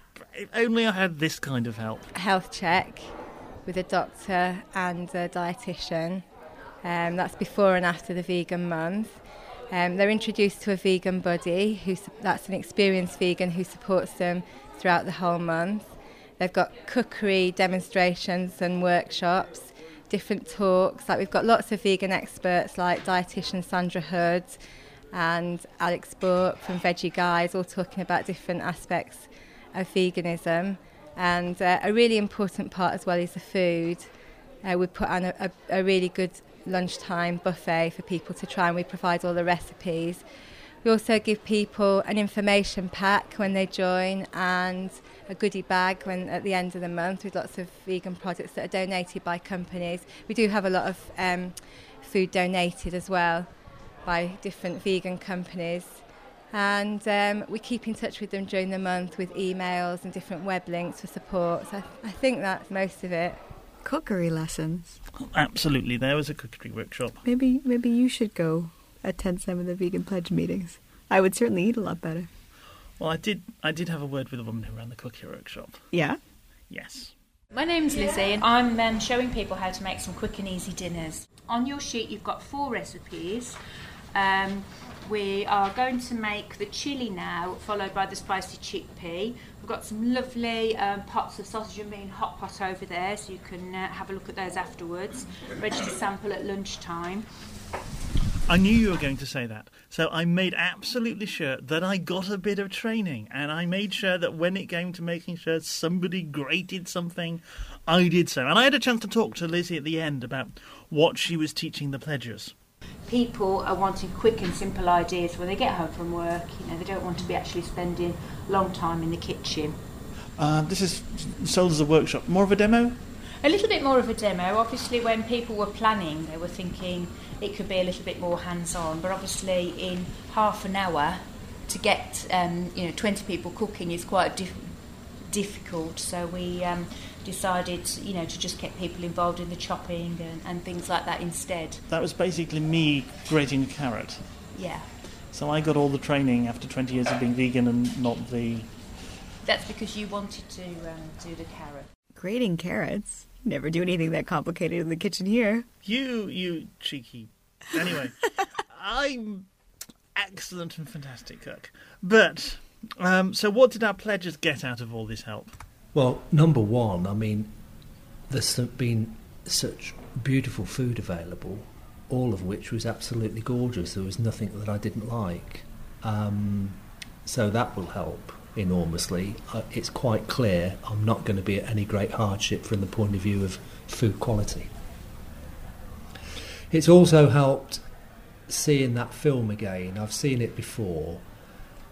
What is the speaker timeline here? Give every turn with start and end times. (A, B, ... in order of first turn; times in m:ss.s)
0:00.2-0:02.1 A
0:02.1-0:06.2 B
0:06.8-0:24.6 B
0:25.1-0:34.1 B
0:34.6-0:40.2 B
0:40.8-0:53.5 B
0:54.0-1:03.4 B
1:03.8-1:05.0 C
1:05.2-1:07.2 A
1:07.2-1:12.3 C
1:13.0-1:15.9 A
1:15.9-1:16.2 C
1:16.7-1:17.1 A
1:17.5-1:23.6 D
1:24.1-1:37.3 D
1:38.4-1:52.5 A
1:53.0-1:59.8 D
2:00.4-2:03.0 A
2:03.4-2:21.8 D
2:21.9-2:24.2 A
2:24.5-2:25.0 D
2:25.1-2:28.7 A
2:29.4-2:31.9 D
2:32.2-2:35.7 C
2:35.8-2:39.5 A
2:40.1-2:45.5 A
2:45.9-2:47.5 E
2:48.3-3:04.7 E
3:06.7-3:07.9 E
3:08.5-3:11.2 E